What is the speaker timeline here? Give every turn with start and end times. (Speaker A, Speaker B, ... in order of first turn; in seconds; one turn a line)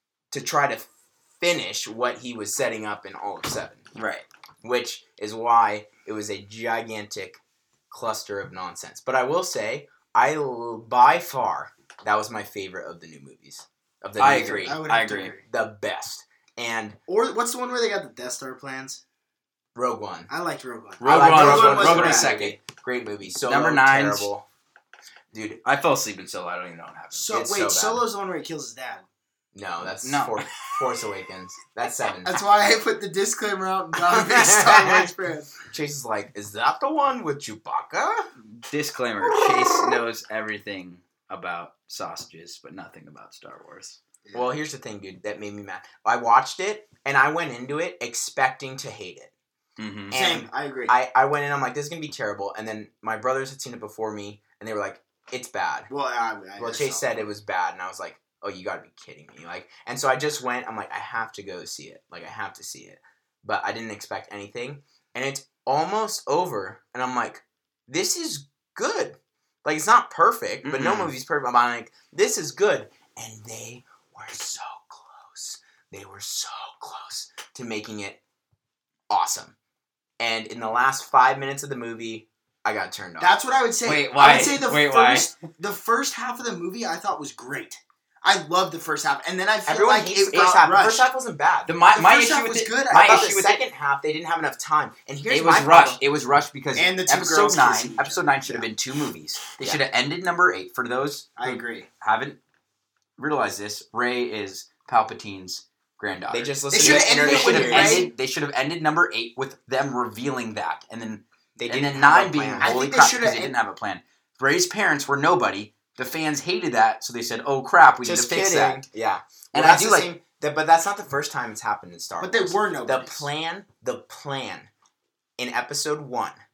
Speaker A: 0.3-3.9
Speaker B: 4.0-4.3
Speaker A: 4.6-14.8
Speaker B: 14.2-15.3
Speaker C: 14.4-15.5
Speaker A: 15.5-17.0
Speaker C: 17.1-19.0
Speaker A: 19.8-20.3
Speaker C: 20.3-22.4
Speaker B: 21.0-22.6
Speaker A: 21.0-24.4
Speaker B: 23.4-24.3
Speaker A: 25.3-25.6
Speaker B: 25.6-27.3
Speaker C: 27.1-29.1
Speaker A: 27.3-28.0
Speaker A: 29.5-32.4
Speaker B: 30.0-30.6
Speaker C: 32.2-35.6
Speaker A: 34.0-35.1
Speaker A: 35.6-38.3
Speaker B: 38.4-44.0
Speaker C: 44.2-44.5
Speaker A: 44.3-49.3
Speaker B: 49.8-50.2
Speaker A: 50.1-55.9
Speaker C: 50.1-51.0
Speaker C: 55.9-57.2
Speaker A: 56.6-78.2
Speaker B: 70.6-71.1
Speaker A: 79.1-79.5
Speaker A: 80.2-83.4
Speaker C: 83.2-91.1
Speaker B: 83.8-85.3
Speaker A: 89.7-91.7
Speaker B: 91.7-93.6
Speaker C: 91.9-93.3
Speaker A: 92.9-96.0
Speaker B: 95.3-102.4
Speaker C: 96.8-98.4
Speaker C: 101.4-101.9
Speaker B: 103.2-118.9
Speaker A: 106.3-108.1
Speaker C: 106.7-108.1
Speaker A: 111.6-112.8
Speaker C: 112.6-113.5
Speaker A: 118.0-124.7
Speaker B: 119.5-120.1
Speaker C: 122.2-123.3
Speaker A: 125.4-126.4